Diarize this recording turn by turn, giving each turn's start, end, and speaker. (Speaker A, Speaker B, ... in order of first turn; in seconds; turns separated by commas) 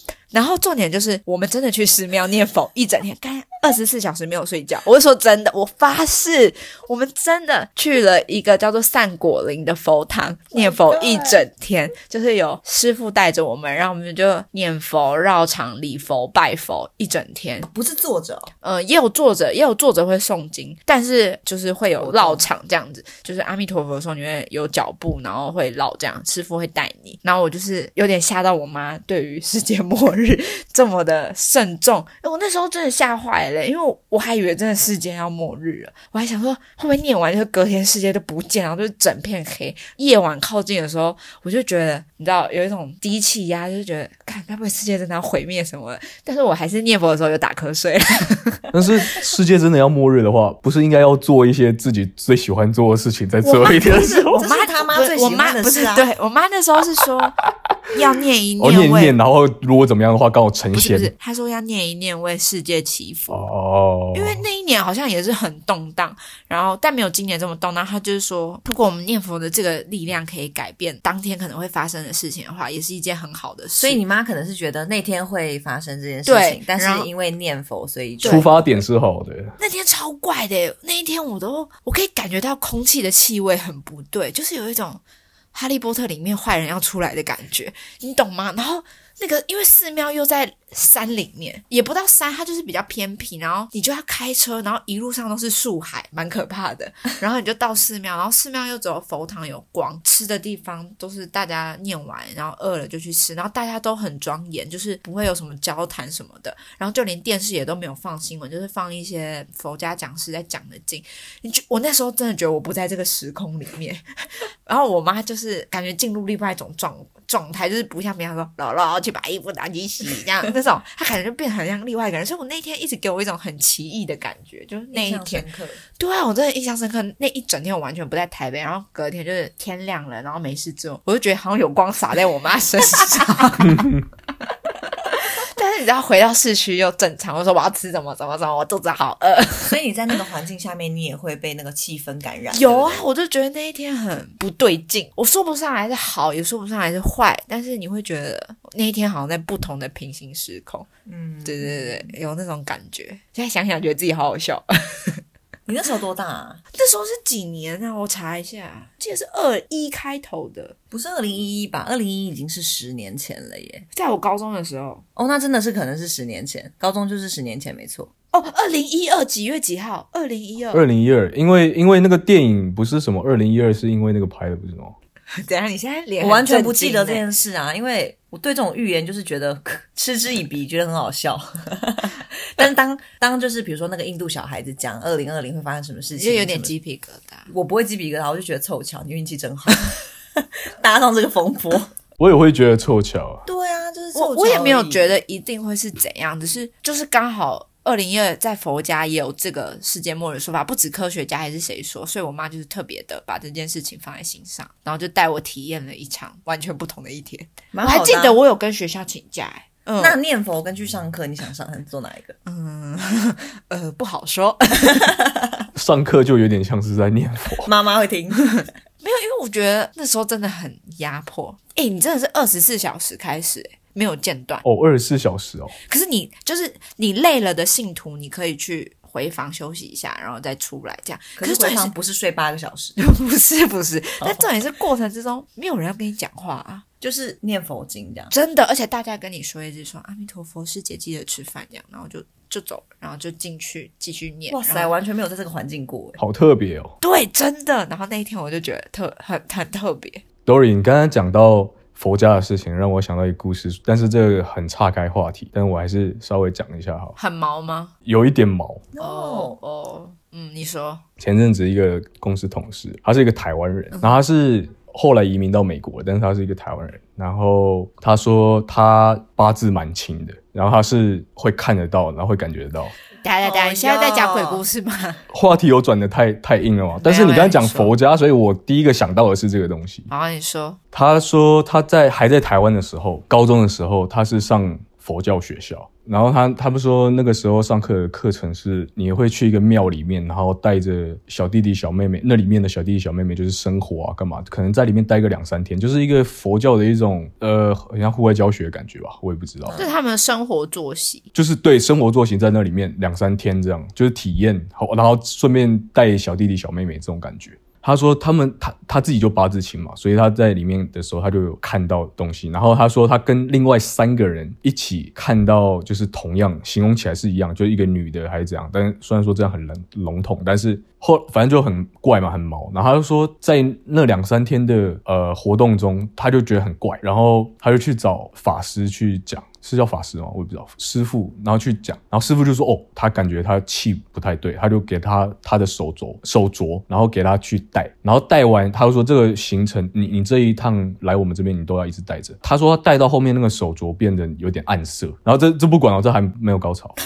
Speaker A: 0.3-17.7, Speaker B: 10.5-11.4, Speaker B: 17.6-18.5, Speaker A: 18.6-48.7, Speaker B: 22.0-22.5, Speaker C: 48.7-54.3, Speaker B: 53.4-56.1, Speaker A: 53.8-59.1, Speaker C: 58.6-61.1, Speaker A: 60.7-63.5, Speaker C: 63.3-64.4, Speaker A: 64.1-74.0, Speaker B: 73.8-78.7, Speaker A: 76.2-77.1, Speaker A: 78.2-78.5, Speaker C: 78.2-79.5, Speaker A: 79.6-85.0, Speaker A: 85.5-114.0, Speaker A: 114.7-125.5, Speaker B: 124.9-125.8, Speaker A: 126.0-133.9, Speaker C: 133.7-134.0, Speaker A: 135.1-139.8, Speaker B: 139.6-143.0, Speaker A: 142.5-150.9, Speaker B: 151.1-152.1, Speaker A: 151.4-155.2, Speaker B: 155.7-156.6, Speaker A: 156.7-160.8, Speaker B: 160.9-163.9, Speaker A: 163.9-165.0, Speaker B: 165.2-168.1, Speaker A: 168.3-170.8, Speaker C: 170.7-175.0, Speaker A: 175.3-177.2, Speaker B: 176.2-186.7, Speaker A: 186.2-187.5, Speaker B: 187.5-191.9, Speaker C: 192.2-193.5, Speaker B: 193.5-195.1, Speaker A: 194.1-210.2, Speaker B: 207.7-208.4, Speaker B: 210.0-212.4, Speaker A: 212.5-215.1, Speaker B: 215.0-215.6, Speaker C: 215.8-217.7, Speaker B: 217.6-218.6, Speaker A: 218.6-224.6, Speaker C: 224.6-225.8, Speaker A: 225.9-231.9, Speaker B: 231.4-233.0, Speaker A: 233.0-236.8, Speaker B: 237.0-238.3, Speaker A: 238.3-244.9, Speaker B: 244.5-246.2, Speaker C: 246.2-246.9, Speaker A: 247.0-250.2, Speaker C: 250.5-257.1, Speaker A: 257.2-257.9, Speaker C: 258.0-258.9, Speaker B: 258.9-259.6, Speaker A: 259.0-261.0, Speaker C: 261.2-272.9, Speaker A: 273.2-275.2, Speaker B: 273.4-274.6, Speaker C: 275.3-280.1, Speaker A: 277.0-277.9, Speaker A: 280.1-280.8, Speaker C: 280.9-299.8, Speaker B: 299.6-299.9, Speaker A: 299.8-301.3, Speaker C: 301.3-347.0